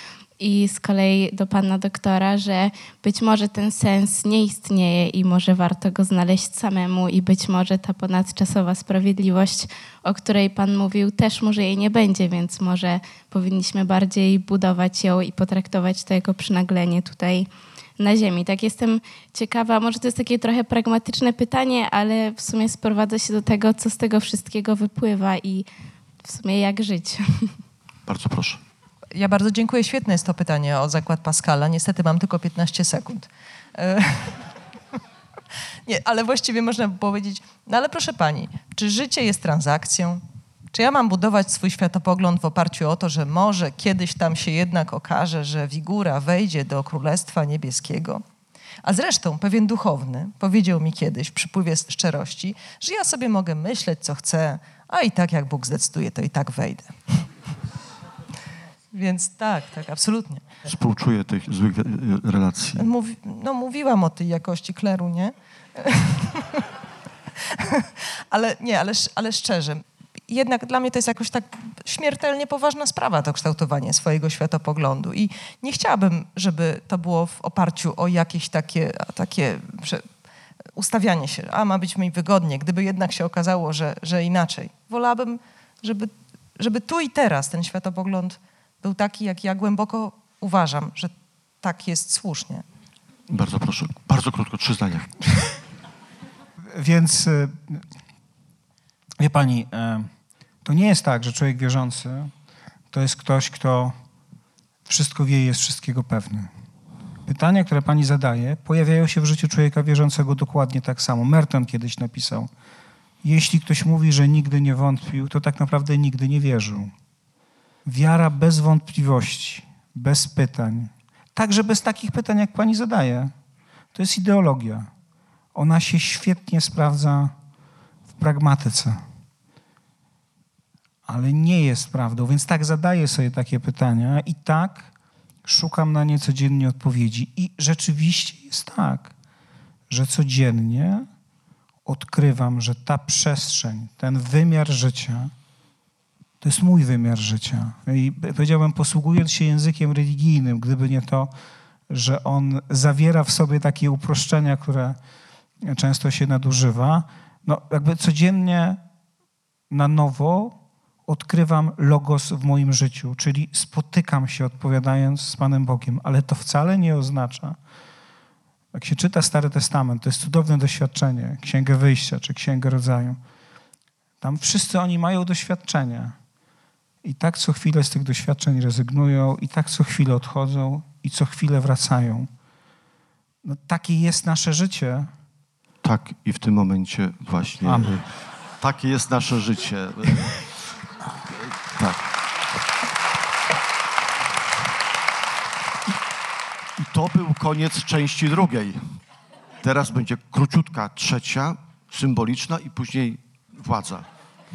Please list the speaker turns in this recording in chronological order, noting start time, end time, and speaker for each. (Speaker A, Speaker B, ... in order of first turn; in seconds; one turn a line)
Speaker A: 0.4-25.7
Speaker A: 26.2-27.5
Speaker B: 28.1-28.6
Speaker C: 29.1-34.5
Speaker C: 35.9-48.2
Speaker C: 48.8-57.2
Speaker C: 58.9-60.4
Speaker B: 60.7-62.9
Speaker C: 62.8-66.7
Speaker C: 67.3-80.0
Speaker C: 80.7-92.6
Speaker B: 93.3-95.1
Speaker D: 96.7-97.8
Speaker D: 99.2-100.1
Speaker D: 100.6-102.3
Speaker D: 102.9-103.9
Speaker D: 104.8-106.5
Speaker D: 107.3-112.5
Speaker D: 113.2-116.9
Speaker D: 117.8-123.3
Speaker D: 123.9-124.9
Speaker D: 125.5-127.3
Speaker D: 128.2-129.0
Speaker D: 131.1-134.9
Speaker D: 135.4-139.1
Speaker D: 139.9-141.1
Speaker D: 141.8-145.3
Speaker D: 146.4-151.3
Speaker D: 151.9-155.0
Speaker D: 155.7-158.8
Speaker D: 159.7-167.6
Speaker D: 168.7-173.2
Speaker D: 174.2-176.1
Speaker D: 177.0-182.3
Speaker D: 183.4-185.1
Speaker B: 185.8-190.5
Speaker D: 187.6-188.0
Speaker B: 191.7-192.1
Speaker B: 196.8-198.9
Speaker B: 199.6-204.1